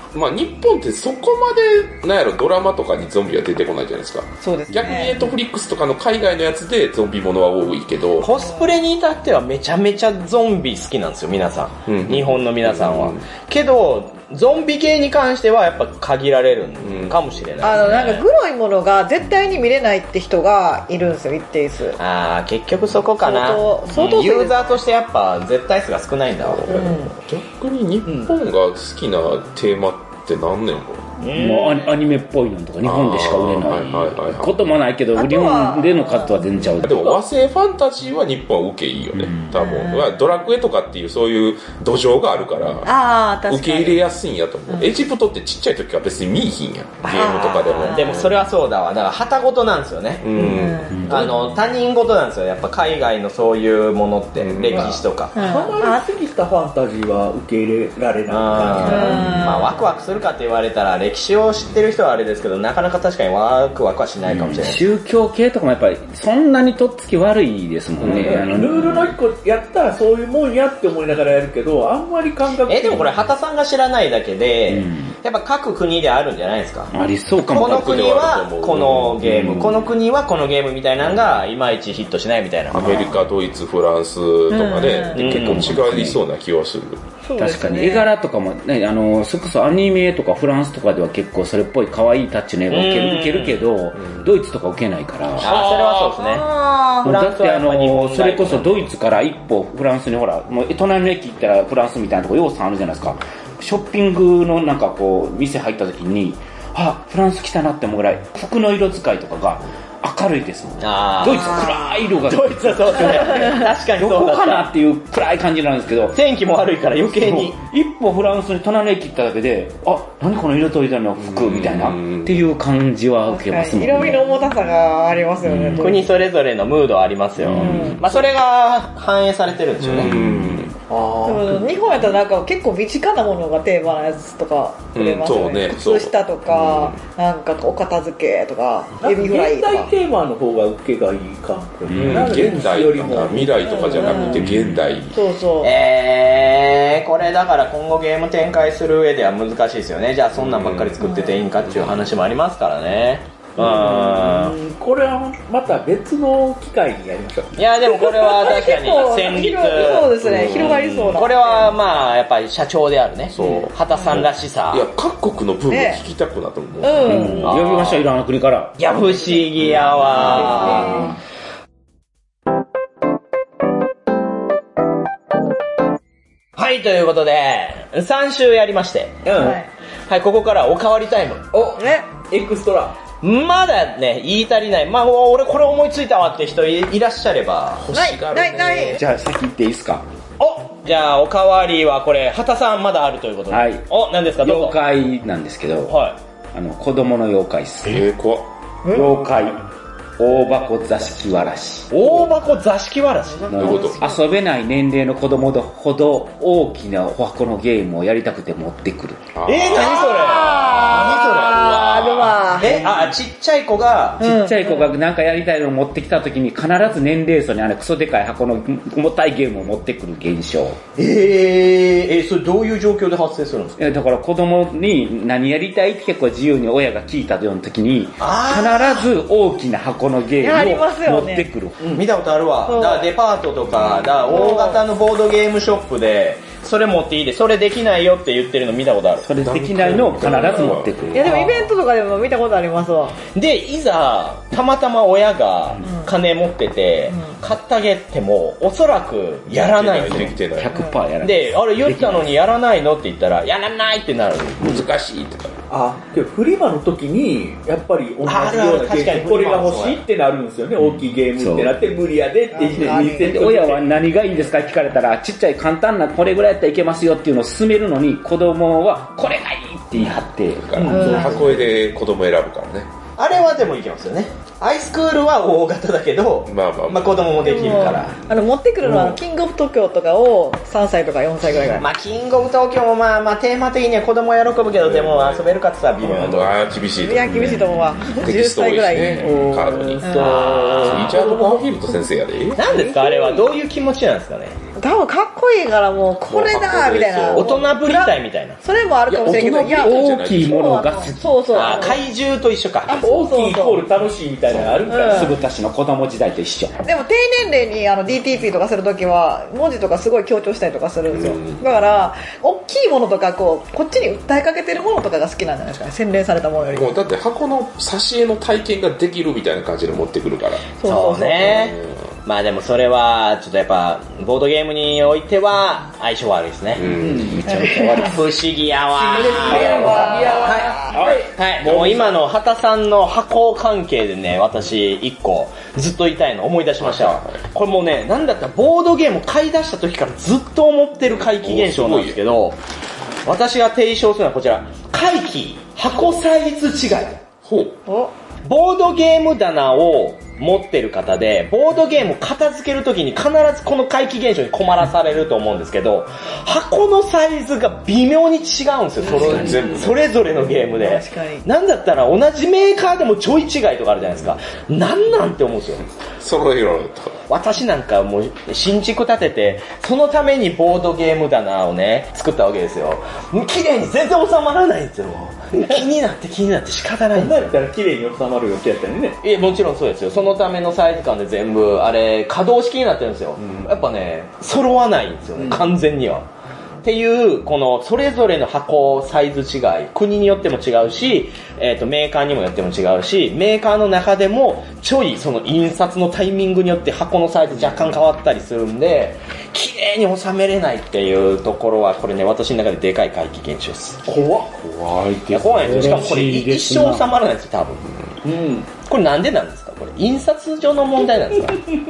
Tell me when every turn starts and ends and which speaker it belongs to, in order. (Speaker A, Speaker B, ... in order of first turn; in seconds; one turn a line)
Speaker A: 0.1-8.3
Speaker B: 4.4-5.3
Speaker C: 8.2-18.3
Speaker A: 11.9-13.3
Speaker A: 16.8-17.6
Speaker B: 17.6-22.0
Speaker C: 22.0-26.9
Speaker B: 23.2-24.8
Speaker A: 26.4-31.1
Speaker B: 26.7-27.1
Speaker D: 28.1-28.3
Speaker C: 31.2-31.9
Speaker E: 31.3-37.2
Speaker A: 32.8-34.6
Speaker B: 35.1-36.7
Speaker A: 36.8-43.0
Speaker E: 39.1-39.6
Speaker B: 39.6-40.1
Speaker B: 42.8-44.0
Speaker A: 43.5-48.4
Speaker B: 44.7-45.0
Speaker C: 47.0-50.4
Speaker B: 47.1-48.2
Speaker A: 50.2-51.3
Speaker B: 50.3-51.2
Speaker E: 50.9-51.2
Speaker C: 51.1-55.4
Speaker A: 54.4-55.0
Speaker D: 54.7-59.3
Speaker B: 55.4-56.1
Speaker C: 58.3-64.8
Speaker B: 58.8-59.9
Speaker E: 64.3-69.1
Speaker A: 68.0-68.5
Speaker D: 68.0-73.1
Speaker C: 72.7-76.9
Speaker E: 74.7-75.1
Speaker E: 76.9-78.0
Speaker C: 77.5-83.1
Speaker A: 77.5-79.4
Speaker E: 79.2-79.9
Speaker A: 82.7-87.0
Speaker E: 82.8-83.2
Speaker B: 84.5-85.3
Speaker C: 85.2-85.8
Speaker E: 85.2-86.2
Speaker B: 87.2-88.1
Speaker E: 87.4-95.5
Speaker C: 92.7-93.7
Speaker A: 95.4-96.2
Speaker C: 95.4-98.9
Speaker B: 96.2-97.1
Speaker E: 97.0-116.2
Speaker C: 110.8-114.7
Speaker C: 116.1-117.6
Speaker E: 117.1-124.3
Speaker A: 121.2-122.4
Speaker B: 123.3-126.1
Speaker E: 125.4-126.0
Speaker C: 125.8-130.1
Speaker E: 127.5-128.0
Speaker A: 127.5-128.0
Speaker B: 127.6-128.0
Speaker A: 129.8-130.8
Speaker E: 130.0-130.7
Speaker D: 130.9-132.0
Speaker B: 131.2-139.9
Speaker A: 134.9-137.0
Speaker D: 139.0-144.4
Speaker E: 141.9-142.4
Speaker A: 141.9-145.2
Speaker B: 143.7-144.5
Speaker E: 144.4-144.9
Speaker B: 145.1-145.7
Speaker C: 145.6-154.6
Speaker A: 150.4-151.1
Speaker B: 151.0-151.4
Speaker A: 151.6-152.1
Speaker D: 153.6-158.1
Speaker C: 157.6-164.9
Speaker B: 158.2-161.8
Speaker A: 160.2-161.3
Speaker A: 163.3-167.3
Speaker B: 165.7-166.0
Speaker B: 166.8-167.6
Speaker E: 167.0-168.8
Speaker C: 167.4-168.0
Speaker C: 168.8-171.1
Speaker B: 170.2-171.2
Speaker C: 176.6-179.3
Speaker D: 179.2-179.6
Speaker B: 179.3-179.7
Speaker C: 180.1-181.4
Speaker D: 181.5-183.0
Speaker B: 181.8-182.1
Speaker C: 183.2-187.9
Speaker A: 187.8-189.0
Speaker B: 187.9-189.0
Speaker E: 188.9-190.1
Speaker C: 190.4-194.8
Speaker E: 193.5-193.9
Speaker E: 194.4-196.0
Speaker C: 195.9-196.2
Speaker E: 196.5-198.1
Speaker A: 197.9-198.5
Speaker B: 198.9-199.2
Speaker E: 198.9-199.6
Speaker E: 200.2-202.0
Speaker C: 201.9-203.9
Speaker B: 203.5-204.2
Speaker E: 203.5-209.3
Speaker A: 203.5-204.0
Speaker A: 209.3-212.1
Speaker C: 209.4-214.2
Speaker B: 209.8-212.9
Speaker E: 214.2-220.8
Speaker B: 214.2-214.9
Speaker C: 221.0-223.8
Speaker E: 223.8-231.8
Speaker C: 228.2-229.1
Speaker B: 230.4-231.5
Speaker C: 231.9-239.3
Speaker B: 232.7-233.1
Speaker A: 233.7-234.3
Speaker B: 234.3-234.8
Speaker E: 239.2-241.7
Speaker A: 239.4-241.4
Speaker B: 240.3-243.2
Speaker C: 243.3-250.4
Speaker B: 245.8-246.1
Speaker B: 247.1-247.4
Speaker A: 249.6-250.8
Speaker E: 250.1-252.3
Speaker C: 251.2-254.8
Speaker A: 254.6-255.6
Speaker D: 255.7-263.9
Speaker C: 258.2-260.0
Speaker E: 260.8-261.8
Speaker B: 262.5-263.5
Speaker E: 263.0-271.0
Speaker A: 270.7-272.9
Speaker D: 270.8-271.8
Speaker B: 270.9-271.6
Speaker C: 273.2-278.1
Speaker A: 276.5-278.0
Speaker B: 277.4-281.9
Speaker D: 278.8-279.2
Speaker C: 281.8-286.6
Speaker A: 284.8-292.6
Speaker B: 286.9-289.4
Speaker D: 289.2-291.9
Speaker B: 290.0-290.7
Speaker C: 290.2-291.2
Speaker C: 292.6-294.6
Speaker B: 292.6-293.5
Speaker B: 294.8-302.0
Speaker A: 296.2-297.5
Speaker C: 297.3-298.6
Speaker A: 299.1-300.8
Speaker E: 299.7-301.9
Speaker C: 301.5-303.1
Speaker B: 302.9-303.9
Speaker D: 303.0-305.4
Speaker A: 304.5-304.9
Speaker B: 304.9-305.4
Speaker E: 305.1-306.8
Speaker B: 306.8-316.9
Speaker A: 311.1-311.6
Speaker A: 316.7-320.7
Speaker B: 320.8-321.7
Speaker C: 320.8-326.9
Speaker A: 321.5-322.0
Speaker A: 326.8-327.5
Speaker D: 327.0-327.5
Speaker E: 327.3-328.2
Speaker B: 327.5-328.2
Speaker C: 328.0-342.6
Speaker D: 328.9-331.3
Speaker B: 329.2-330.9
Speaker E: 329.3-331.2
Speaker A: 329.6-330.2
Speaker A: 330.9-332.2
Speaker A: 336.8-337.4
Speaker A: 341.1-342.2
Speaker C: 343.3-347.2
Speaker A: 347.4-347.8
Speaker B: 347.9-348.1
Speaker C: 348.4-365.9
Speaker A: 359.0-360.6
Speaker D: 359.1-359.8
Speaker B: 360.8-361.5
Speaker A: 366.2-367.2
Speaker C: 367.3-377.6
Speaker D: 377.1-379.2
Speaker C: 379.2-386.3
Speaker A: 383.4-383.7
Speaker D: 385.4-385.8
Speaker C: 386.8-404.0
Speaker D: 404.1-404.5
Speaker A: 404.5-406.2
Speaker C: 405.3-407.9
Speaker E: 405.6-407.1
Speaker D: 408.2-408.7
Speaker C: 408.9-411.6